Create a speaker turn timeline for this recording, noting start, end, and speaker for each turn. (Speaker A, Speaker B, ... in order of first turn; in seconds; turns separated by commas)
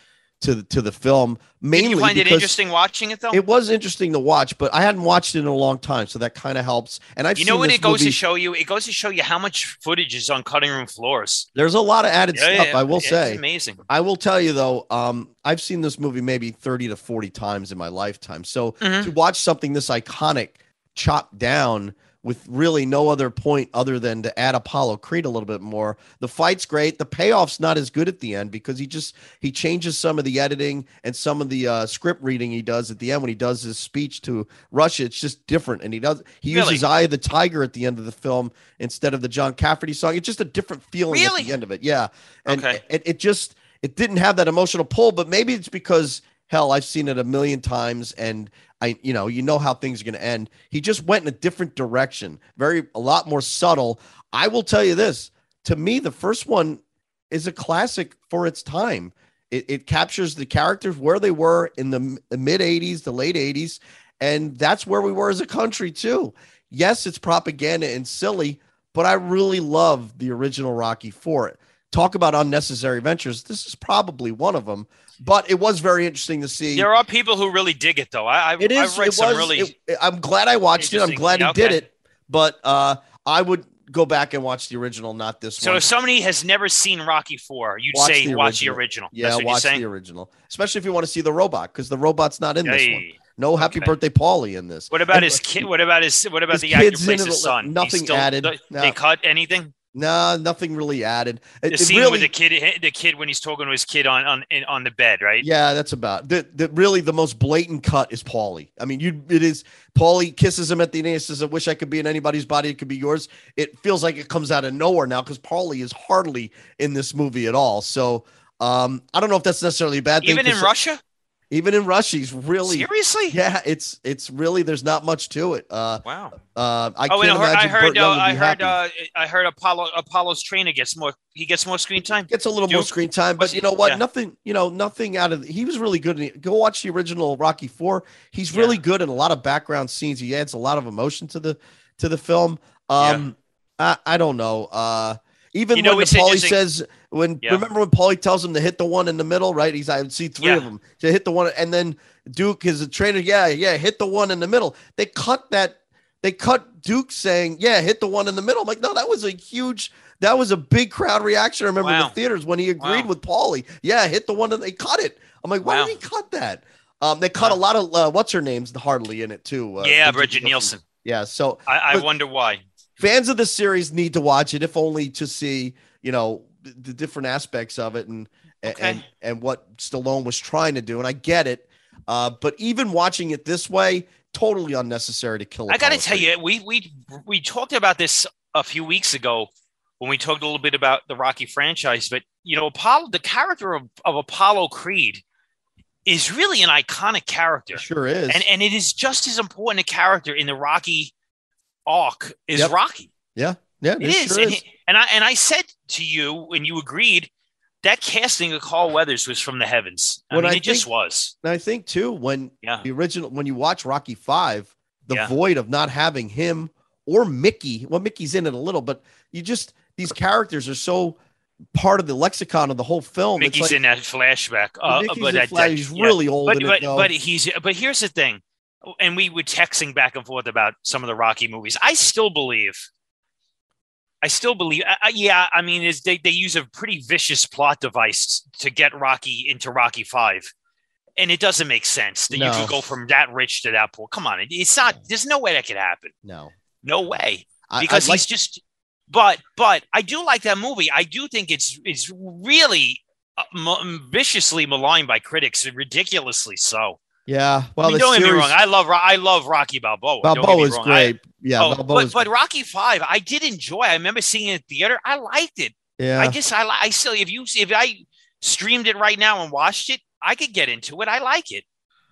Speaker A: 0.4-2.5, Speaker B: 1.7-3.4, Speaker A: 3.3-8.2, Speaker B: 7.3-11.4, Speaker A: 11.5-76.9, Speaker B: 12.3-13.8, Speaker B: 18.8-19.1, Speaker B: 36.5-36.8, Speaker B: 41.1-41.5, Speaker B: 42.5-42.8, Speaker B: 76.7-79.7, Speaker A: 78.6-85.9, Speaker B: 80.8-81.8, Speaker B: 85.6-89.8, Speaker A: 87.9-95.7, Speaker B: 92.6-93.9, Speaker B: 94.9-99.7, Speaker A: 96.5-99.0, Speaker A: 99.9-102.3, Speaker B: 101.7-105.5, Speaker A: 105.4-120.7, Speaker B: 120.2-121.0, Speaker A: 121.5-128.8, Speaker B: 122.6-123.4, Speaker B: 126.0-126.3, Speaker B: 127.1-134.0, Speaker A: 132.3-172.1, Speaker B: 138.5-138.8, Speaker B: 145.7-146.6, Speaker B: 150.4-150.7, Speaker B: 161.8-162.1, Speaker B: 162.8-163.1, Speaker B: 165.6-166.0, Speaker B: 169.8-170.8, Speaker B: 171.7-172.6, Speaker A: 173.0-186.3, Speaker B: 178.6-179.0, Speaker B: 185.7-195.2, Speaker B: 196.1-201.1, Speaker A: 197.7-198.4, Speaker B: 201.8-203.1, Speaker A: 203.3-204.6, Speaker B: 204.0-207.3, Speaker B: 207.8-211.3, Speaker A: 210.3-210.9, Speaker A: 211.4-221.2, Speaker A: 221.7-223.8, Speaker B: 223.4-232.9, Speaker A: 224.8-227.1, Speaker B: 234.2-240.5, Speaker B: 241.2-246.1, Speaker A: 242.3-242.9, Speaker A: 246.2-246.5, Speaker B: 246.8-257.0, Speaker A: 247.7-248.2, Speaker A: 257.3-258.6, Speaker B: 257.8-271.6, Speaker A: 260.2-262.2, Speaker A: 266.0-266.4